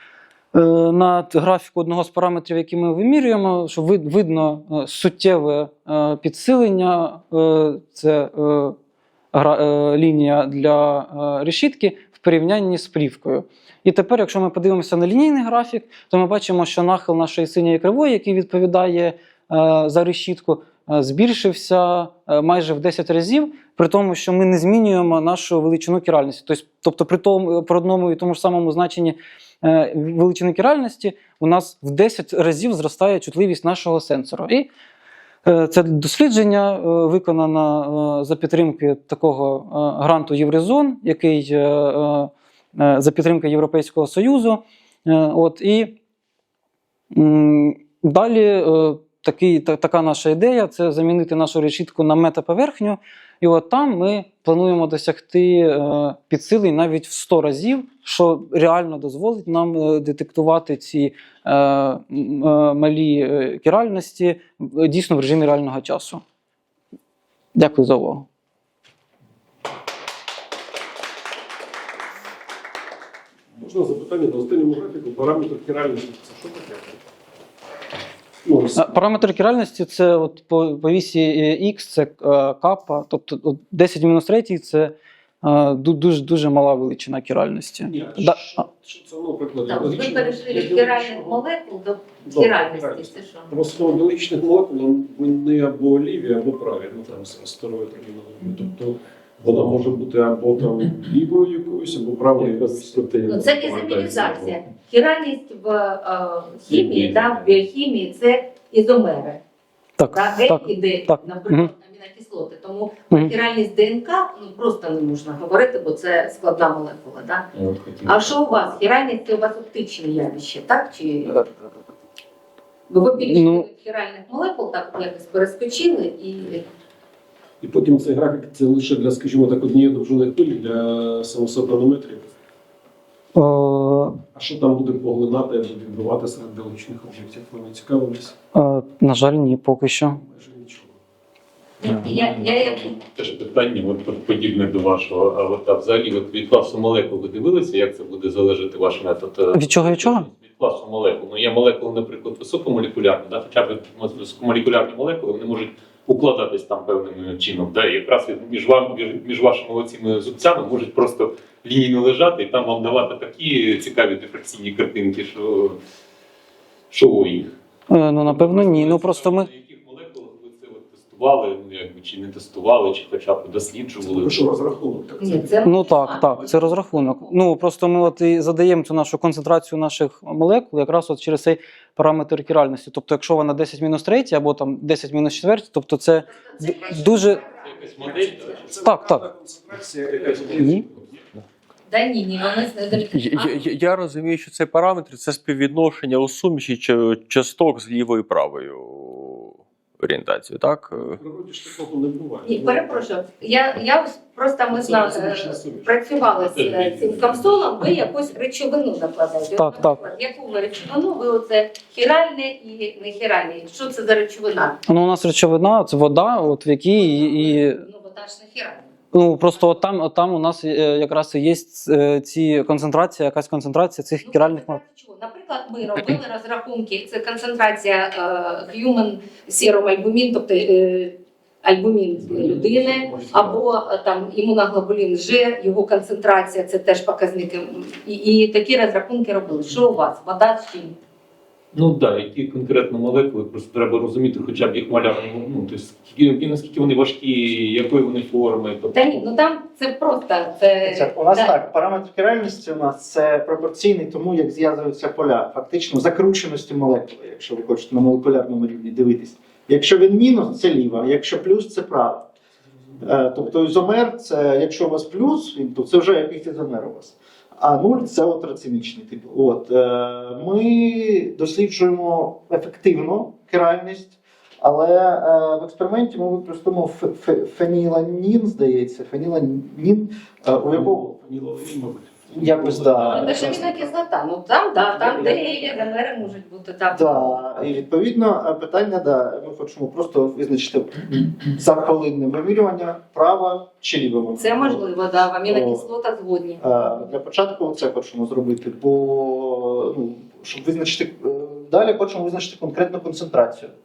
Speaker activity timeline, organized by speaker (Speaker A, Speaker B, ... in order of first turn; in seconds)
Speaker A: 0.5-8.7, 9.3-34.7, 35.4-46.0, 47.1-66.2, 67.5-68.3, 78.8-88.4, 110.0-111.7, 123.2-123.7, 133.3-134.2, 138.5-140.2, 149.5-150.2, 167.9-169.5, 175.6-187.4, 188.8-189.3, 190.5-190.8, 209.6-210.0, 214.8-217.8, 219.1-224.8
Speaker B: 73.6-77.0, 78.4-78.9, 87.9-91.4, 92.2-103.8, 127.6-132.3, 134.3-138.3, 140.3-140.9, 174.0-175.5, 188.0-191.1, 201.2-203.1, 204.7-206.2, 232.2-233.7, 280.6-283.6
Speaker C: 89.7-93.5, 103.3-109.4, 110.1-117.4, 118.0-121.4, 122.9-126.6, 141.8-142.9, 175.2-177.4, 186.7-187.6, 191.9-193.6, 202.4-214.8, 217.0-218.8, 224.2-240.9, 248.9-251.5, 283.1-287.2, 294.4-296.6
Speaker D: 99.5-99.8, 102.4-104.6, 106.7-107.6, 117.5-118.5, 141.8-165.8, 166.9-167.5, 168.2-174.5, 187.6-188.6, 206.4-207.8, 241.7-249.2
Speaker E: 193.1-201.2
Speaker F: 250.8-262.3, 263.0-281.1, 282.3-283.8, 285.0-285.7, 286.9-294.9, 295.4-295.8, 296.6-303.7